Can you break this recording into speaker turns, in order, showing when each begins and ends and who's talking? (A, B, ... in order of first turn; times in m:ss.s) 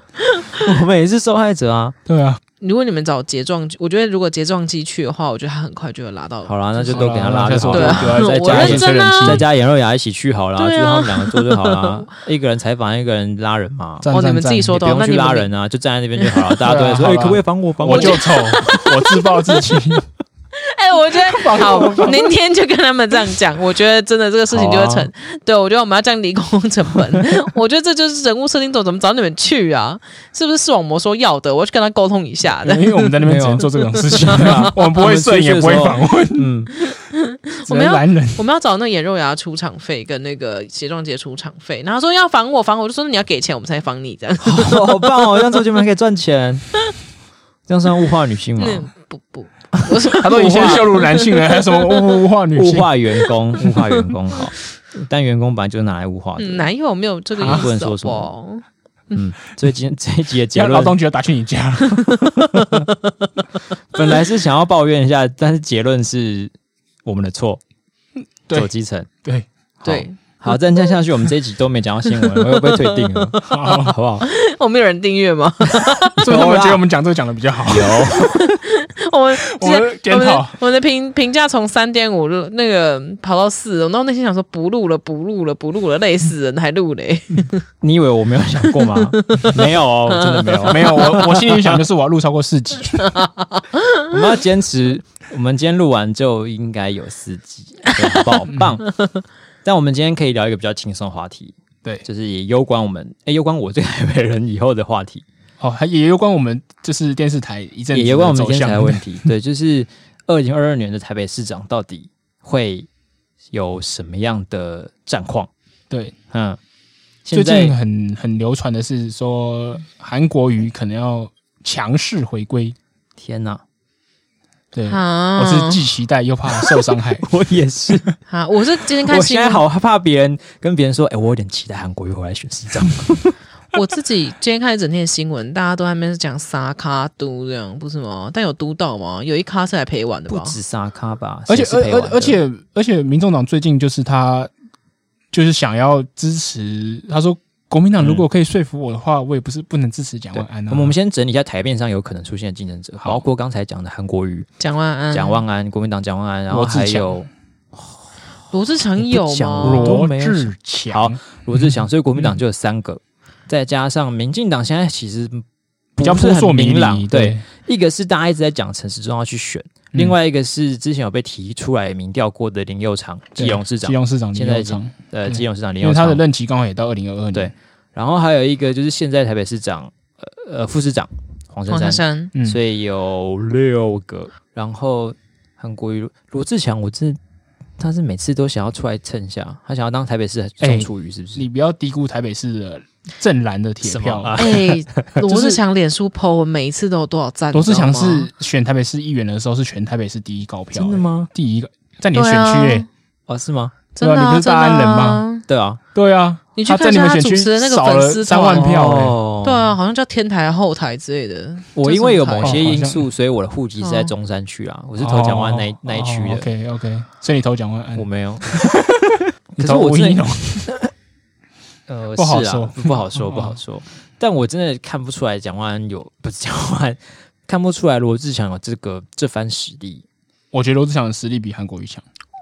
0:00.6-0:02.0 A
0:02.0-0:02.4 B
0:02.6-0:09.4 C
0:06.4-0:14.1 A
0:06.9-0:09.4 B
0:10.6-0:12.1 C
0:14.0-0:14.8 B
0:14.1-0:15.5 C
0:14.7-0:18.4 A
0:16.2-0:16.5 C
0:16.6-0:20.1 B
0:17.9-0:19.8 C
0:20.6-0:33.2 C
0:21.2-0:22.4 B
0:24.5-0:25.1 A
0:32.6-0:36.5 B
0:33.2-0:36.7 A
0:34.0-0:34.6 C
0:36.8-0:45.6 C
0:37.6-0:38.4 B
0:44.4-0:46.6 A
0:47.7-0:48.9 A
0:48.6-0:52.2 C
0:50.1-0:52.9 B
0:52.5-0:56.7 A
0:56.4-0:58.6 C
0:57.4-0:57.7 B
0:57.4-0:58.3 A
0:59.1-1:01.0 A
1:00.5-1:02.5 B
1:01.9-1:03.0 C
1:03.9-1:06.5 A
1:07.0-1:07.6 A
1:08.5-1:09.1 A
1:09.8-1:14.2 A
1:09.8-1:10.8 C
1:12.1-1:16.2 C
1:13.4-1:14.0 B
1:16.2-1:16.8 A
1:16.2-1:18.2 B
1:17.7-1:18.4 A
1:18.2-1:27.6 C
1:19.5-1:20.6 B
1:27.8-1:31.6 A
1:28.7-1:31.2 C
1:30.5-1:33.2 B
1:33.0-1:34.1 C
1:34.0-1:38.9 A
1:39.6-1:45.2 A
1:45.6-1:49.0 B
1:47.9-1:52.9 A
1:53.5-1:55.5 A
1:55.9-1:56.1 B
1:56.3-1:56.6 A
1:57.2-1:57.8 A
1:57.3-2:02.8 B
2:03.2-2:03.6 A
2:04.7-2:07.2 B
2:04.9-2:05.8 C
2:06.7-2:08.1 A
2:08.3-2:09.6 C
2:09.1-2:13.4 A
2:13.7-2:20.6 C
2:20.3-2:22.4 A
2:21.5-2:24.5 B
2:25.3-2:30.9 B
2:30.3-2:34.5 A
2:34.6-2:35.4 C
2:35.1-2:38.0 A
2:36.5-2:37.2 B
2:38.5-2:40.0 C
2:39.0-2:45.4 A
2:39.6-2:42.3 B
2:46.0-2:56.2 A
2:46.0-2:47.4 B
2:53.4-2:57.5 B
2:57.3-3:07.2 A
3:01.7-3:02.3 C
3:02.3-3:02.6 B
3:07.8-3:11.4 A
3:10.6-3:14.5 B
3:13.8-3:15.2 A
3:14.4-3:18.3 C
3:15.2-3:15.6 B
3:17.5-3:22.8 B
3:20.7-3:21.3 A
3:22.1-3:22.9 C
3:23.3-3:23.7 A
3:24.0-3:25.4 C
3:24.0-3:25.2 B
3:25.4-3:25.8 A
3:25.9-3:29.2 B
3:26.6-3:32.6 C
3:28.5-3:29.7 A
3:31.7-3:36.5 A
3:32.4-3:33.0 B
3:33.8-3:34.1 C
3:35.0-3:40.7 B
3:37.9-3:38.6 A
3:39.5-3:40.9 A
3:41.9-3:50.0 A
3:42.2-3:43.6 B
3:50.5-3:52.0 B